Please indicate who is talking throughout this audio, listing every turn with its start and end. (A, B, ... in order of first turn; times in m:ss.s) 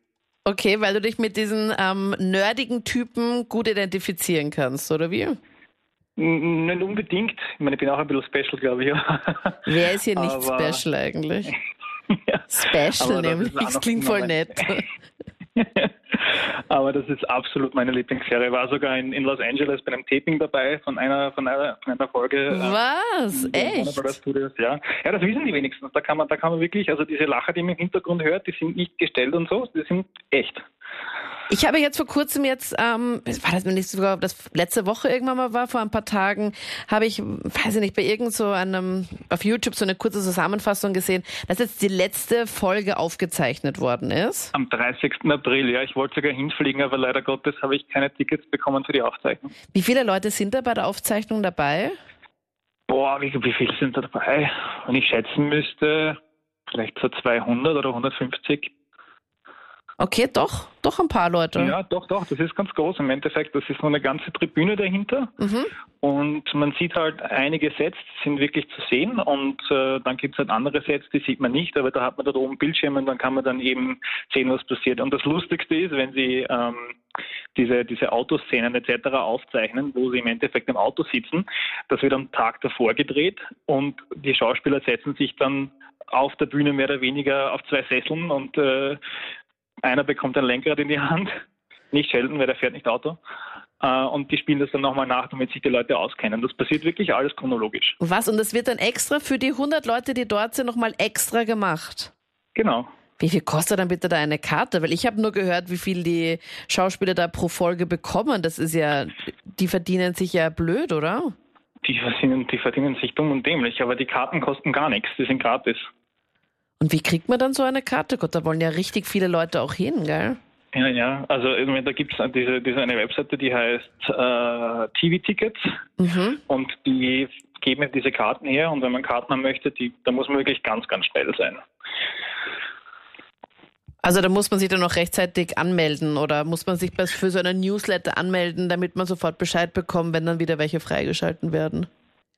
0:00.4-0:05.4 A
0:06.2-0:10.8 B
0:09.7-0:11.6 A
0:12.1-0:14.8 B
0:12.5-0:14.8 A
0:15.6-0:22.8 B
0:22.5-0:24.1 A
0:23.3-0:30.6 B
0:31.5-0:44.5 A
0:44.5-0:49.5 B
0:49.7-0:52.0 A
0:52.9-0:56.2 B
0:56.7-0:58.7 B
1:00.0-1:01.8 A
1:01.6-1:05.3 B
1:05.4-1:05.7 A
1:06.0-1:17.0 B
1:17.6-1:29.0 B
1:29.8-1:31.3 B
1:31.9-1:33.2 B
1:33.8-1:38.0 B
1:38.0-1:42.1 A
1:42.6-1:42.9 B
1:43.2-1:51.4 A
1:51.8-1:55.9 B
1:56.8-2:00.4 A
2:00.7-2:05.6 B
2:06.0-2:06.4 A
2:06.5-2:11.6 B
2:14.0-2:21.9 A